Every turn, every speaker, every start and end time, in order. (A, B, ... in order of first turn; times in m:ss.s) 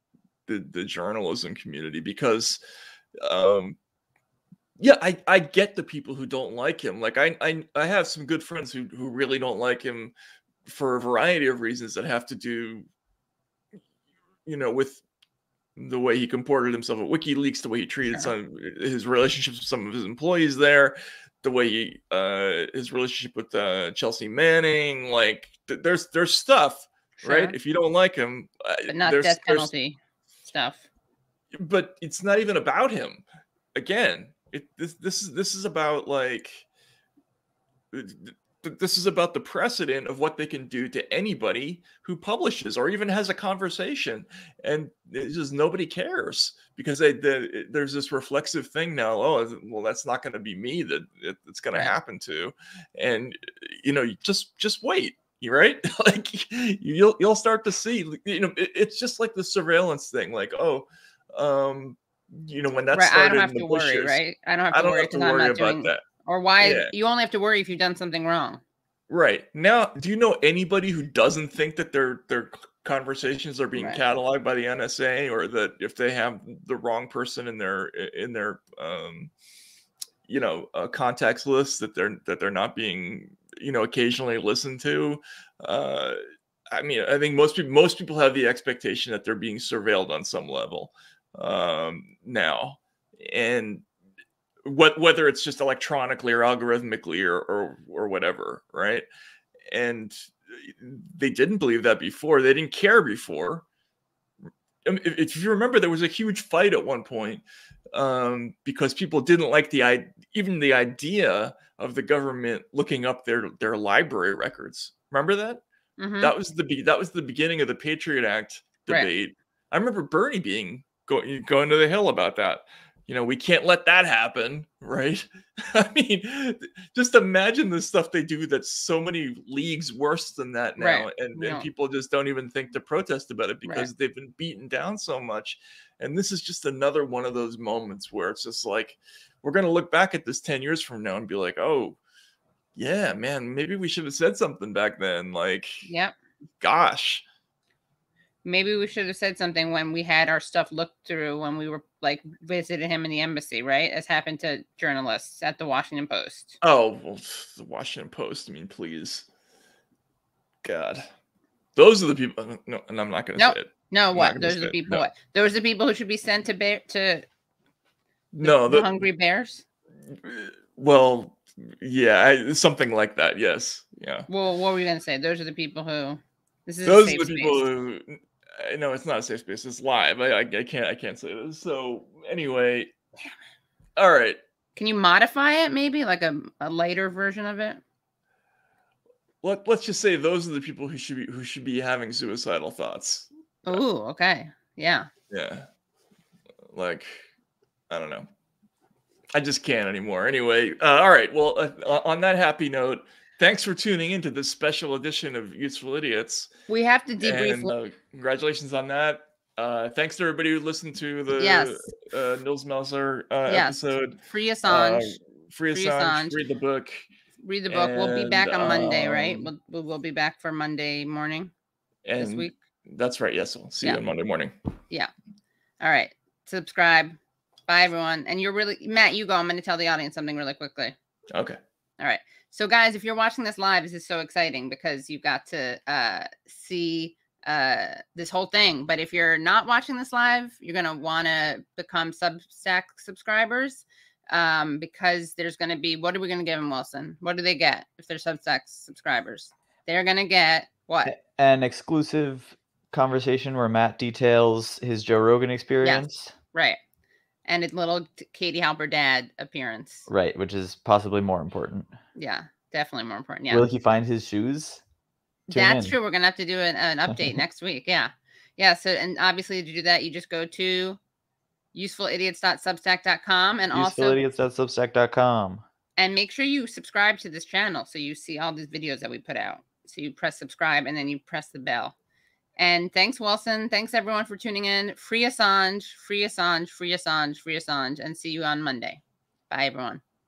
0:00.5-0:02.6 A
0:03.2-0:03.8 A
0:04.8-0:10.1 A
0:10.6-0:12.9 A
0:14.4-0:15.0 A
0:15.8-0:29.7 A
0:27.2-0:27.6 B
0:28.9-0:30.8 B
0:31.6-0:36.6 A
0:37.9-1:04.2 A
1:02.9-1:08.6 B
1:04.7-1:06.0 A
1:06.6-1:06.9 A
1:09.1-1:19.3 A
1:13.8-1:14.0 B
1:20.3-1:26.2 A
1:26.7-1:33.8 A
1:34.6-1:39.0 A
1:39.7-1:43.6 A
1:44.8-1:55.6 A
1:56.0-1:56.3 B
1:56.2-2:22.0 A
2:10.8-2:11.7 B
2:22.8-2:25.9 A
2:25.8-2:26.1 B
2:26.6-2:27.2 A
2:28.4-2:36.6 B
2:36.6-2:39.2 A
2:40.6-2:41.1 A
2:41.8-2:45.1 A
2:43.4-2:47.2 B
2:48.3-2:49.0 A
2:48.4-2:49.6 B
2:50.1-2:54.3 A
2:54.3-2:57.6 B
2:56.8-3:02.9 A
3:04.0-3:04.4 A
3:04.8-3:07.8 B
3:09.4-3:13.8 A
3:13.6-3:15.1 B
3:15.3-3:15.7 A
3:16.7-3:17.3 A
3:17.9-3:18.3 A
3:19.3-3:26.5 A
3:26.7-3:27.7 B
3:27.2-3:37.1 A
3:31.4-3:31.9 B
3:33.5-3:35.1 B
3:35.7-3:36.4 B
3:37.4-3:41.5 B
3:37.7-3:39.5 A
3:42.0-3:44.5 A
3:42.2-3:42.5 B
3:45.8-3:50.9 B
3:51.3-3:51.6 A
3:52.0-4:11.1 B
4:11.0-4:16.3 C
4:15.8-4:16.8 B
4:17.4-4:20.1 B
4:20.1-4:21.9 C
4:22.2-4:23.6 B
4:23.5-4:24.8 C
4:25.5-4:26.0 C
4:25.5-4:31.0 B
4:27.1-4:27.4 C
4:31.7-4:34.2 B
4:33.7-4:35.6 C
4:36.0-4:41.9 B
4:42.6-4:50.0 B